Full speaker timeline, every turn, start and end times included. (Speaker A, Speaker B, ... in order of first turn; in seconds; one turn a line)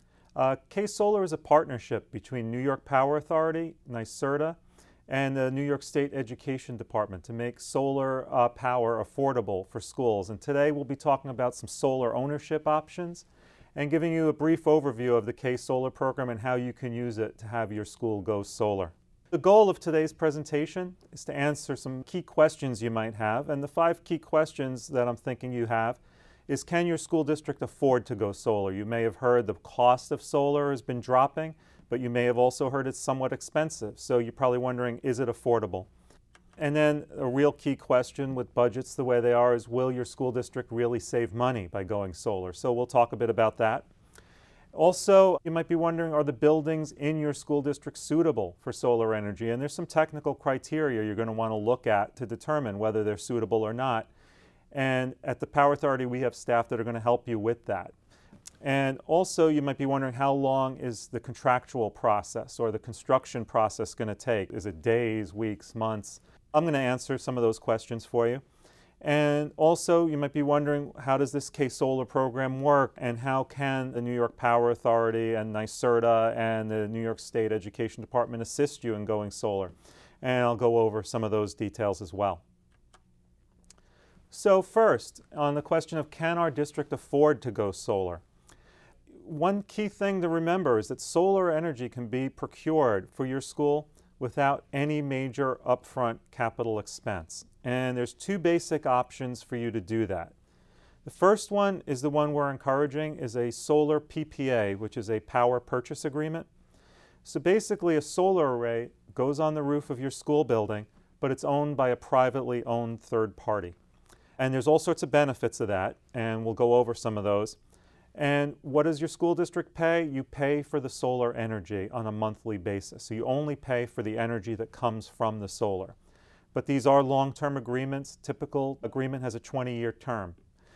Speaker A: 0.3-35.9
Speaker A: 36.6-43.9
Speaker A: 44.7-54.1
Speaker A: 54.7-57.9
Speaker A: 58.6-68.4
Speaker A: 69.0-82.4
Speaker A: 84.3-88.2
Speaker A: 89.2-100.3
Speaker A: 101.0-106.5
Speaker A: 107.2-113.8
Speaker A: 114.4-117.6
Speaker A: 118.2-126.0
Speaker A: 126.5-130.4